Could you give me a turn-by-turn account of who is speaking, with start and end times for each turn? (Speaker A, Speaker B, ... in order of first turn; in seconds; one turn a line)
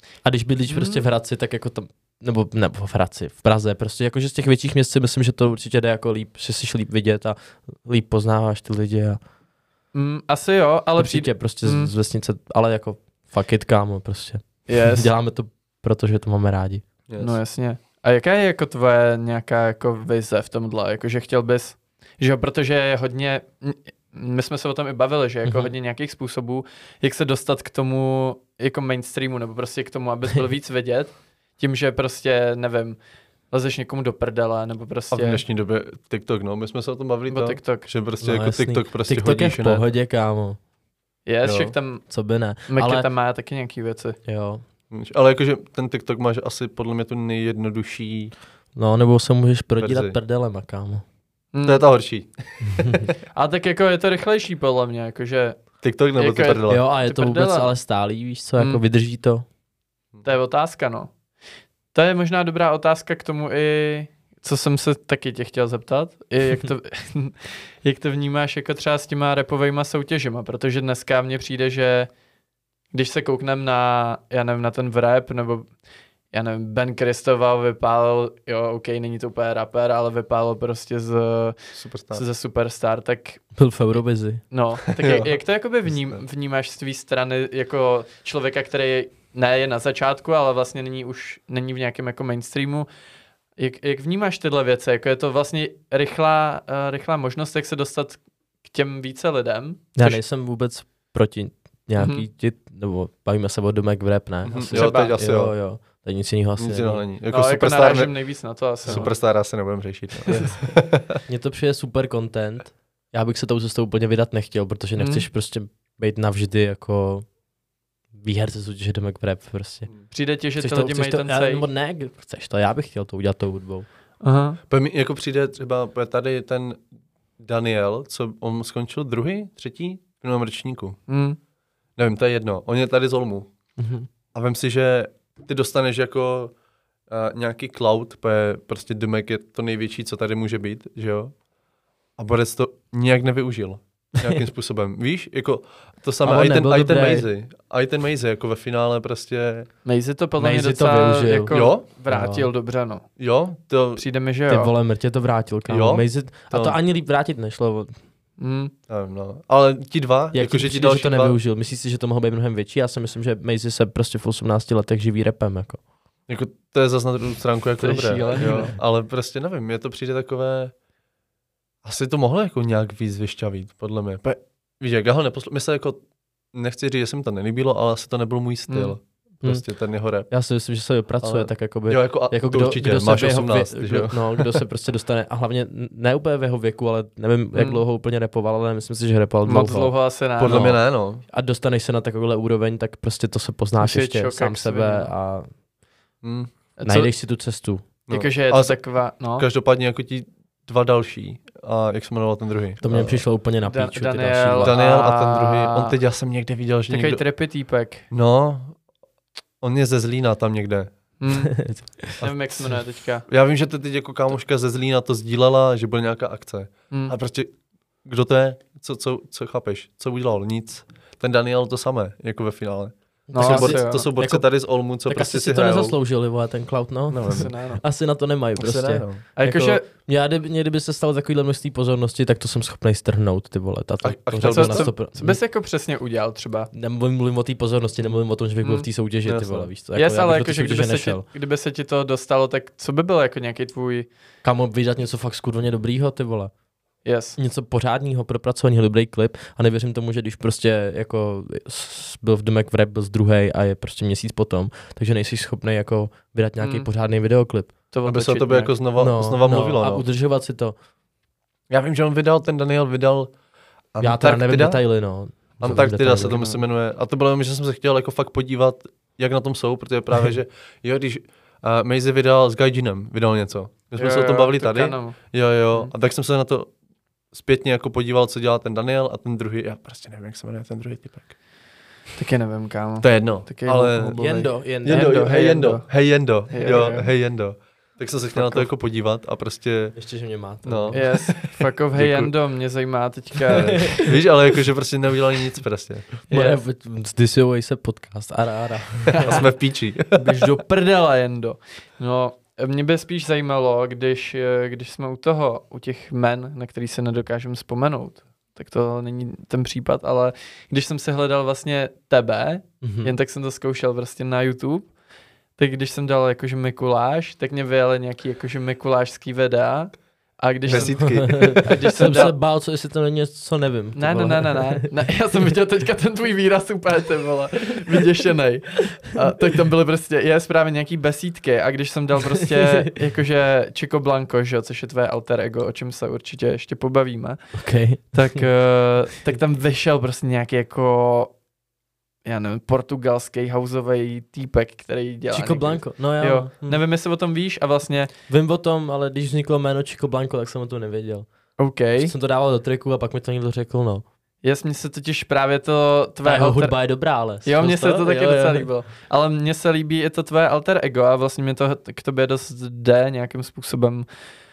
Speaker A: 0.2-9.2
Speaker B: 0.7-1.0
Speaker B: 9.9-11.9
Speaker A: 11.0-16.8
Speaker B: 14.7-15.1
Speaker C: 17.1-17.4
Speaker B: 17.2-33.0
Speaker A: 25.4-25.7
Speaker B: 33.5-35.4
Speaker C: 35.1-39.8
Speaker B: 37.3-37.9
Speaker A: 38.2-40.6
Speaker B: 41.2-42.0
Speaker A: 41.5-43.0
Speaker B: 42.7-44.2
Speaker A: 44.2-44.6
Speaker C: 44.9-48.3
Speaker A: 48.7-51.0
Speaker C: 49.8-50.1
Speaker B: 51.5-51.8
Speaker C: 51.6-53.1
Speaker A: 52.7-53.1
Speaker B: 53.3-55.6
Speaker C: 55.8-56.8
Speaker B: 56.1-57.7
Speaker A: 56.7-59.4
Speaker B: 60.2-61.1
Speaker B: 61.9-72.1
Speaker B: 72.9-75.7
Speaker B: 76.3-81.6
Speaker C: 81.7-82.2
Speaker B: 82.1-83.4
Speaker A: 83.5-84.4
Speaker B: 84.5-92.9
Speaker C: 85.0-85.3
Speaker B: 93.6-100.2
Speaker A: 100.0-107.0
Speaker B: 102.0-102.2
Speaker C: 104.4-105.5
Speaker B: 104.6-105.1
Speaker C: 106.6-111.2
Speaker B: 107.3-109.1
Speaker A: 111.1-117.3
Speaker B: 115.0-115.3
Speaker A: 118.1-119.9
Speaker B: 120.1-121.7
Speaker A: 120.6-123.8
Speaker B: 124.2-124.6
Speaker C: 124.7-126.8
Speaker C: 127.4-131.0
Speaker B: 131.1-131.4
Speaker C: 132.0-133.5
Speaker A: 133.8-134.1
Speaker C: 134.3-136.5
Speaker C: 137.1-141.3
Speaker C: 142.2-149.7
Speaker A: 146.2-147.3
Speaker B: 149.8-153.1
Speaker A: 150.4-152.5
Speaker C: 151.5-151.8
Speaker C: 153.2-154.0
Speaker B: 153.9-154.7
Speaker A: 154.5-157.9
Speaker C: 155.7-156.8
Speaker B: 158.4-158.7
Speaker C: 158.9-161.4
Speaker A: 160.3-165.8
Speaker C: 166.3-170.7
Speaker B: 167.8-168.7
Speaker C: 171.8-176.0
Speaker C: 176.5-180.3
Speaker B: 178.7-178.9
Speaker A: 180.3-195.5
Speaker C: 181.2-184.6
Speaker B: 187.5-187.8
Speaker B: 189.4-190.7
Speaker C: 190.4-191.2
Speaker B: 193.8-195.1
Speaker C: 196.2-196.5
Speaker B: 196.8-197.1
Speaker A: 196.8-197.9
Speaker C: 198.1-203.2
Speaker B: 198.1-199.4
Speaker A: 202.8-204.7
Speaker B: 203.6-205.9
Speaker C: 204.6-207.2
Speaker B: 206.9-208.0
Speaker C: 208.1-208.8
Speaker C: 209.6-210.9
Speaker B: 211.2-211.6
Speaker A: 211.4-212.3
Speaker B: 212.1-213.2
Speaker C: 213.3-217.5
Speaker B: 216.9-217.2
Speaker C: 218.0-226.0
Speaker A: 223.3-224.4
Speaker B: 223.3-224.1
Speaker A: 225.1-235.4
Speaker C: 227.1-227.5
Speaker B: 227.3-227.8
Speaker C: 228.6-229.2
Speaker B: 229.3-229.8
Speaker C: 234.0-234.9
Speaker B: 234.4-236.7
Speaker A: 236.7-241.2
Speaker B: 238.6-238.9
Speaker C: 239.2-239.7
Speaker B: 239.9-244.1
Speaker A: 244.4-246.5
Speaker B: 247.0-247.4
Speaker A: 247.4-257.7
Speaker B: 256.6-256.9
Speaker B: 257.9-258.7
Speaker C: 258.1-260.0
Speaker A: 259.0-260.8
Speaker C: 261.7-263.3
Speaker C: 263.9-264.8
Speaker A: 264.0-266.4
Speaker C: 265.6-276.7
Speaker B: 266.3-266.6
Speaker B: 274.0-275.2
Speaker C: 277.3-281.3
Speaker B: 282.1-287.1
Speaker C: 283.0-284.1
Speaker A: 284.1-285.3
Speaker C: 284.8-290.0
Speaker A: 288.4-288.7
Speaker A: 289.9-291.2
Speaker C: 290.6-292.3
Speaker B: 290.9-294.1
Speaker C: 293.5-296.1
Speaker B: 296.3-296.6
Speaker A: 296.3-299.5
Speaker B: 299.1-299.5
Speaker C: 299.2-300.2
Speaker B: 300.1-314.9
Speaker A: 312.8-313.1
Speaker B: 315.6-322.3
Speaker A: 320.7-324.9
Speaker C: 320.7-321.7
Speaker B: 323.9-337.4
Speaker A: 337.5-338.4
Speaker B: 338.1-341.4
Speaker B: 342.2-348.1
Speaker A: 345.3-346.8
Speaker A: 348.3-351.3
Speaker B: 351.6-352.1
Speaker A: 351.9-354.0
Speaker B: 354.4-356.8
Speaker A: 356.2-358.7
Speaker B: 357.4-364.1